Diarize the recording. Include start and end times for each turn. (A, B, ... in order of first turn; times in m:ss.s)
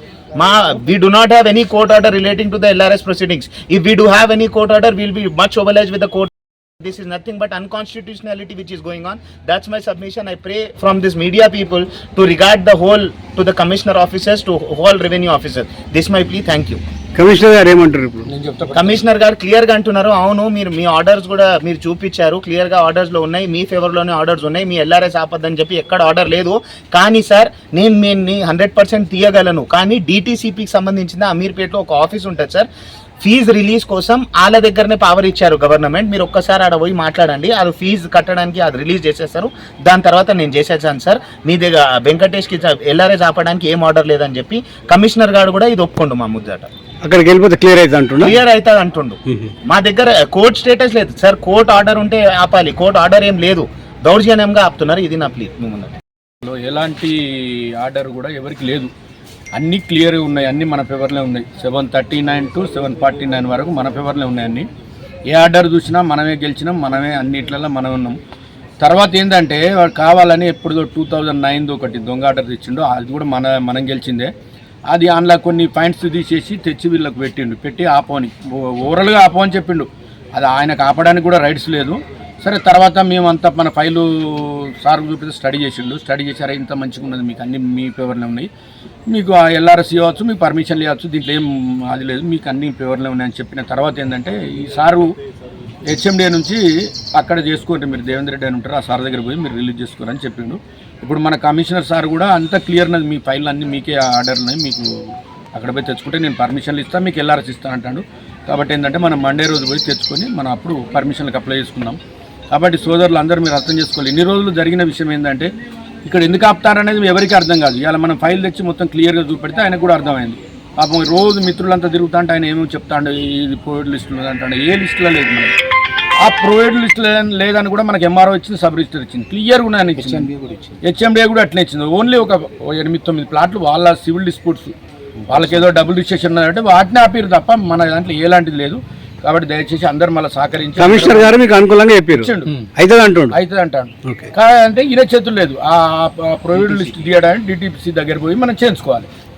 0:00.4-0:16.8 A
0:17.2-0:18.3 B
0:18.3-0:19.1 C
0:18.7-0:32.7 A
0:33.2-0:46.7 A
0:47.0-0:48.4 B
0:48.2-0:55.9 A
0:49.3-0:49.5 B
0:56.4-0:58.9 C
0:59.6-1:04.7 C
1:05.3-1:08.2 C
1:08.8-1:14.3 C
1:14.9-1:28.5 C
1:29.1-1:35.1 C
1:35.9-1:44.9 C
1:45.5-1:52.0 C
1:52.5-1:55.5 C
1:56.0-2:05.5 C
2:06.2-2:10.3 C
2:10.8-2:14.8 C
2:15.3-2:21.4 C
2:20.8-2:23.4 B
2:22.2-2:22.7 C
2:23.3-2:29.1 C
2:24.0-2:24.3 B